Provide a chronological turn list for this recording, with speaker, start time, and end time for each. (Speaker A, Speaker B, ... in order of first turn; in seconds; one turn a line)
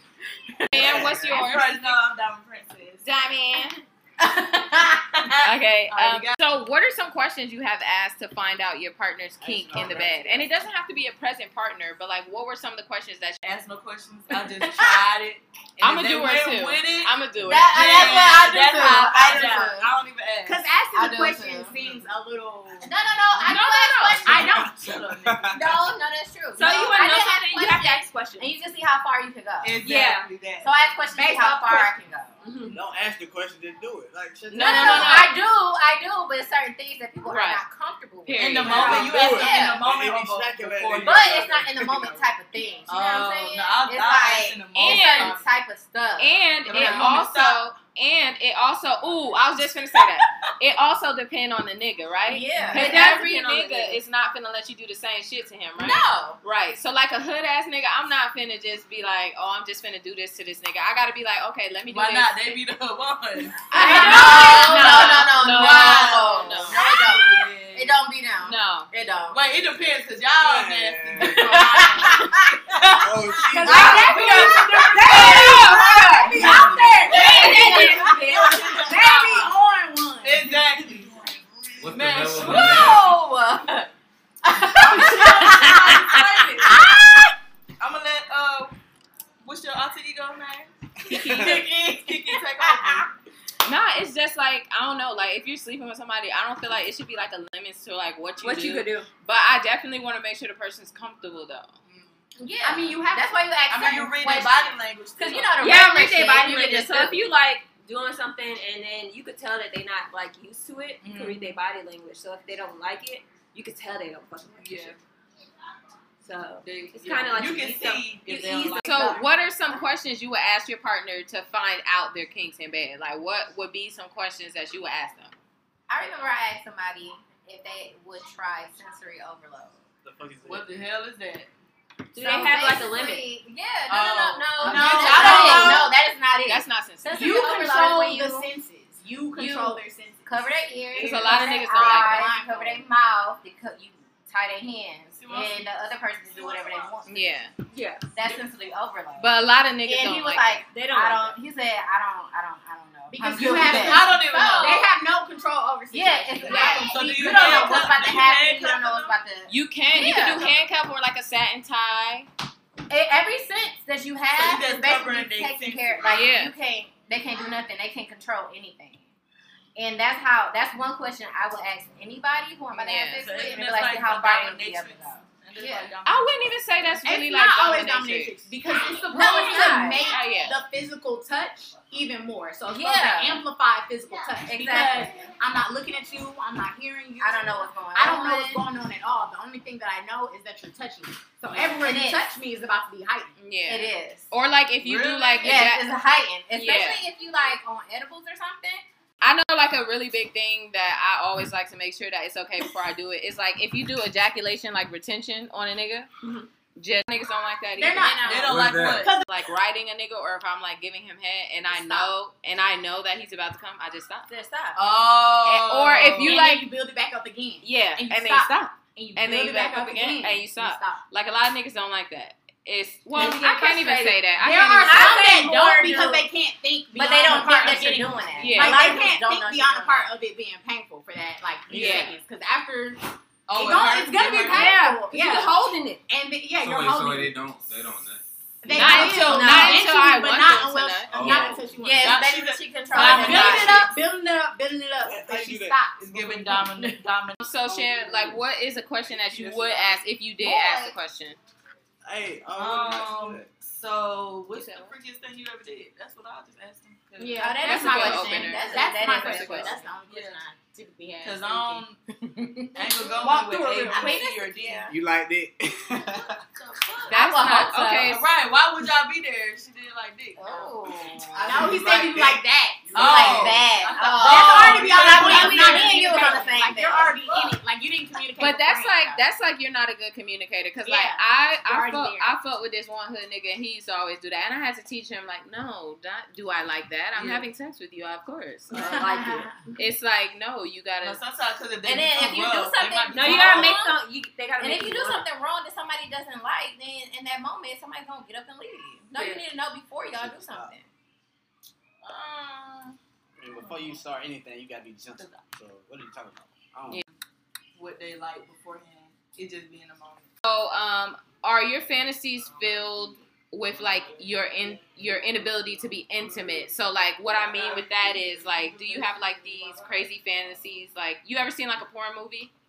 Speaker A: 0.7-2.0
Speaker B: 0.7-1.4
Speaker C: 0.9-3.0
Speaker A: 3.1-3.7
Speaker D: 3.1-5.3
Speaker C: 5.2-6.4
Speaker A: 5.4-13.4
Speaker B: 9.4-10.7
Speaker C: 13.4-20.6
Speaker A: 15.8-17.9
Speaker D: 17.5-19.9
Speaker E: 17.5-19.8
Speaker E: 20.4-22.9
Speaker D: 20.9-21.7
Speaker D: 22.8-24.4
Speaker A: 23.4-24.4
Speaker E: 23.5-24.8
Speaker C: 24.2-25.5
Speaker B: 24.4-25.8
Speaker D: 25.5-29.8
Speaker F: 26.6-28.5
Speaker E: 26.6-27.0
Speaker C: 29.6-30.7
Speaker F: 29.8-30.3
Speaker D: 30.6-32.3
Speaker E: 31.1-31.9
Speaker F: 32.4-32.8
Speaker B: 32.7-35.3
Speaker A: 34.5-35.3
Speaker D: 34.5-39.9
Speaker E: 34.6-35.1
Speaker A: 37.3-37.6
Speaker A: 38.2-39.1
Speaker C: 38.4-41.6
Speaker B: 38.7-42.3
Speaker D: 41.0-47.0
Speaker C: 42.9-45.4
Speaker A: 44.8-45.4
Speaker A: 46.2-62.6
Speaker C: 46.6-47.6
Speaker D: 52.3-54.0
Speaker E: 52.5-52.9
Speaker F: 52.7-53.6
Speaker D: 55.8-56.4
Speaker C: 61.9-64.7
Speaker A: 63.7-66.8
Speaker D: 63.7-69.4
Speaker E: 63.8-65.0
Speaker E: 65.5-66.4
Speaker C: 65.8-68.0
Speaker A: 68.4-68.9
Speaker C: 69.3-72.3
Speaker B: 69.6-72.2
Speaker D: 71.3-75.7
Speaker B: 73.0-74.5
Speaker E: 73.5-80.7
Speaker A: 73.6-76.6
Speaker C: 73.7-74.0
Speaker B: 75.0-78.9
Speaker D: 76.3-79.2
Speaker F: 77.0-78.9
Speaker C: 77.1-77.5
Speaker A: 77.2-77.8
Speaker C: 78.8-79.2
Speaker C: 80.2-81.2
Speaker B: 80.6-82.7
Speaker G: 81.8-83.2
Speaker C: 81.9-83.2
Speaker D: 82.4-83.7
Speaker A: 82.6-83.0
Speaker D: 84.5-86.2
Speaker E: 84.8-86.3
Speaker C: 84.8-86.7
Speaker B: 84.9-85.7
Speaker C: 87.8-88.8
Speaker C: 89.4-93.1
Speaker A: 91.1-91.5
Speaker B: 91.1-91.9
Speaker E: 91.2-93.0
Speaker A: 93.7-101.8
Speaker F: 98.4-99.1
Speaker C: 101.9-102.2
Speaker D: 102.4-107.2
Speaker E: 102.6-103.4
Speaker C: 103.7-105.7
Speaker F: 105.6-115.0
Speaker C: 111.0-111.6
Speaker C: 114.6-115.0
Speaker F: 116.2-119.2
Speaker C: 116.6-119.3
Speaker A: 118.8-125.3
Speaker D: 125.9-129.8
Speaker B: 130.0-130.7
Speaker C: 130.5-131.5
Speaker F: 132.1-133.3
Speaker D: 132.2-138.5
Speaker C: 133.9-135.9
Speaker E: 134.6-135.9
Speaker A: 135.0-135.8
Speaker A: 136.5-138.0
Speaker E: 137.1-140.4
Speaker D: 139.4-147.4
Speaker A: 140.9-142.3
Speaker E: 141.0-142.8
Speaker C: 145.1-145.7
Speaker C: 146.3-147.0
Speaker A: 147.1-147.5
Speaker F: 147.7-148.1
Speaker D: 148.1-154.9
Speaker A: 149.2-150.6
Speaker F: 150.7-151.4
Speaker E: 153.1-158.0
Speaker C: 153.3-154.9
Speaker D: 155.9-160.5
Speaker C: 156.4-159.2
Speaker A: 156.5-156.9
Speaker A: 159.5-162.3
Speaker D: 162.9-169.1
Speaker C: 164.3-166.2
Speaker A: 166.1-166.5
Speaker D: 169.8-175.9
Speaker A: 172.7-173.3
Speaker C: 173.2-176.4
Speaker A: 176.1-178.4
Speaker E: 177.0-193.3
Speaker D: 179.1-180.1
Speaker A: 180.1-180.6
Speaker D: 182.7-183.4
Speaker D: 184.3-185.3
Speaker D: 187.2-188.6
Speaker D: 191.6-192.2
Speaker A: 193.4-195.8
Speaker D: 193.7-194.3
Speaker C: 194.8-195.7
Speaker D: 195.4-198.8
Speaker A: 196.5-197.0
Speaker A: 199.2-206.1
Speaker A: 206.8-208.2
Speaker E: 207.8-208.3
Speaker D: 207.9-208.6
Speaker C: 208.2-209.2
Speaker G: 208.4-209.1
Speaker A: 209.2-214.3
Speaker D: 211.7-212.1
Speaker D: 214.3-214.8
Speaker C: 214.8-216.4
Speaker A: 215.4-216.7
Speaker E: 216.2-221.0
Speaker A: 217.6-225.1
Speaker F: 223.1-224.2
Speaker E: 224.4-235.6
Speaker D: 224.8-226.3
Speaker F: 224.8-225.5
Speaker D: 226.9-230.1
Speaker A: 228.4-228.8
Speaker A: 231.7-232.2
Speaker C: 233.5-234.8
Speaker F: 234.4-236.0
Speaker E: 236.1-237.3
Speaker G: 236.6-238.2
Speaker E: 238.6-242.2
Speaker A: 238.7-241.6
Speaker D: 238.7-239.9
Speaker F: 239.1-239.8
Speaker G: 241.1-241.6
Speaker B: 241.3-241.7
Speaker D: 241.8-243.9
Speaker C: 242.0-243.9
Speaker E: 242.9-246.7
Speaker A: 243.0-243.6
Speaker B: 245.0-245.9
Speaker C: 246.0-248.4
Speaker A: 247.4-251.4
Speaker B: 249.1-250.0
Speaker D: 250.5-250.9
Speaker B: 252.0-253.5
Speaker C: 252.5-258.4
Speaker A: 254.5-254.9
Speaker D: 257.2-259.9
Speaker A: 257.6-259.8
Speaker E: 257.7-261.9
Speaker C: 260.1-260.4
Speaker C: 261.2-262.0
Speaker C: 262.7-264.9
Speaker D: 263.2-264.9
Speaker E: 263.2-264.3
Speaker B: 264.9-266.4
Speaker C: 266.6-267.2
Speaker D: 267.1-268.2
Speaker A: 267.1-268.2
Speaker C: 267.8-270.8
Speaker D: 270.4-271.7
Speaker B: 271.3-273.8
Speaker E: 271.4-273.6
Speaker C: 271.6-272.1
Speaker C: 272.9-276.5
Speaker D: 272.9-277.2
Speaker E: 274.1-279.2
Speaker C: 277.2-277.6
Speaker A: 278.4-289.0
Speaker E: 280.9-282.4
Speaker F: 288.7-289.6
Speaker E: 288.7-289.5
Speaker A: 289.8-291.2
Speaker C: 291.0-293.8
Speaker D: 291.8-293.9
Speaker F: 293.1-295.3
Speaker D: 294.6-300.9
Speaker F: 299.1-299.4
Speaker B: 300.1-300.8
Speaker C: 302.0-303.0
Speaker B: 303.4-307.0
Speaker C: 303.6-304.0
Speaker C: 305.2-305.4
Speaker C: 307.8-310.3
Speaker A: 310.4-322.5
Speaker C: 317.3-319.3